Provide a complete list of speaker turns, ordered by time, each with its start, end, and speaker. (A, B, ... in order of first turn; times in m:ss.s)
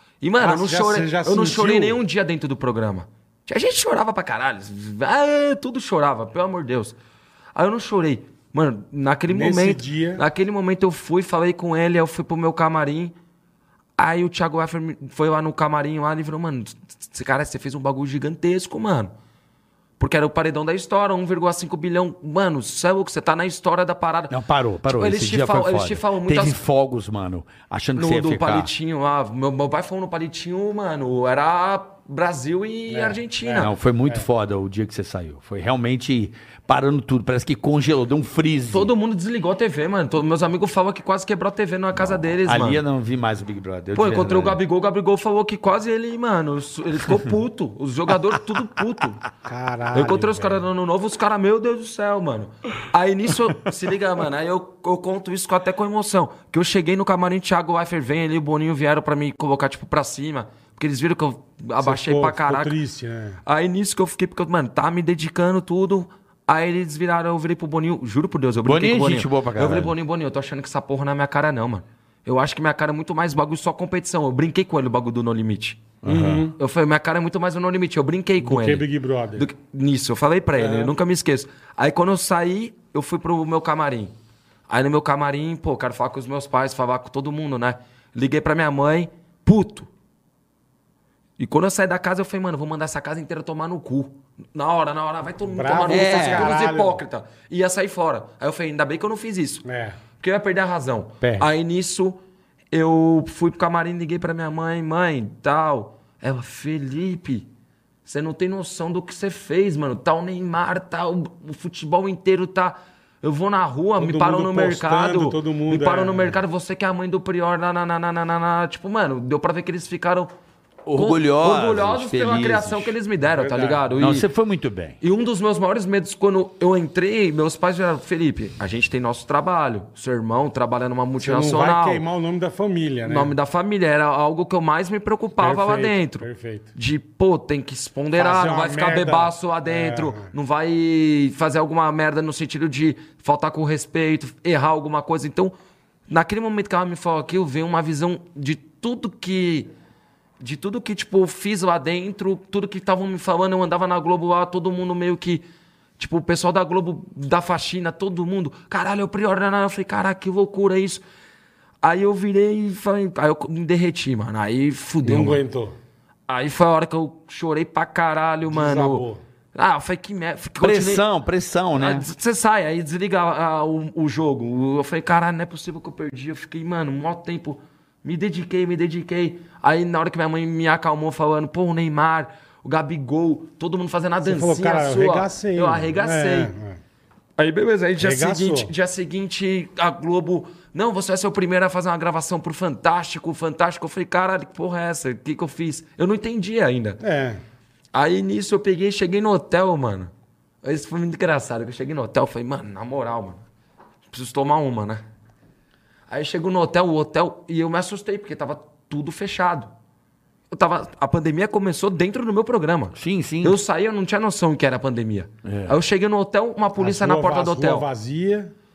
0:00.2-0:06.9 A
0:00.4-0:02.0 B
0:07.6-0:13.1 A
0:09.3-0:10.2 B
0:14.0-0:19.1 A
0:20.0-0:24.3 A
0:24.3-0:28.7 C
0:24.9-0:26.6 A
0:28.0-0:33.7 A
0:32.9-0:34.2 B
0:33.6-0:38.9 C
0:38.7-0:42.8 A
0:42.0-0:44.6 C
0:43.9-0:49.2 A
0:49.4-0:50.7 B
0:49.9-1:02.8 A
1:01.8-1:03.4 B
1:03.4-1:15.8 A
1:08.6-1:09.9 C
1:16.0-1:16.5 C
1:16.0-1:16.6 B
1:16.6-1:24.1 A
1:18.4-1:19.5 B
1:20.6-1:20.9 B
1:24.7-1:29.9 A
1:31.4-1:39.6 A
1:35.5-1:37.0 B
1:35.9-1:36.5 C
1:39.6-1:40.0 B
1:40.2-1:42.2 A
1:41.2-1:41.5 B
1:42.7-1:47.4 A
1:48.0-2:00.3 A
1:54.0-1:56.4 B
2:00.8-2:02.9 C
2:00.9-2:04.2 A
2:03.4-2:04.0 B
2:04.0-2:05.0 C
2:05.0-2:12.0 A
2:11.2-2:13.3 B
2:13.0-2:25.5 A
2:15.4-2:16.7 B
2:18.1-2:20.3 B
2:26.1-2:29.7 A
2:30.4-2:35.4 A
2:36.0-2:41.0 A
2:41.8-2:45.4 A
2:45.0-2:45.8 B
2:46.3-2:49.0 A
2:48.5-2:49.2 B
2:49.5-2:51.0 A
2:50.6-2:52.1 C
2:51.8-3:06.5 A
3:04.2-3:06.8 B
3:07.4-3:17.0 A
3:08.0-3:08.7 B
3:17.0-3:17.4 B
3:17.9-3:20.1 A
3:20.6-3:23.4 A
3:24.1-3:25.0 A
3:26.1-3:29.7 A
3:30.5-3:37.8 A
3:32.9-3:33.6 C
3:35.4-3:35.8 C
3:36.8-3:38.5 B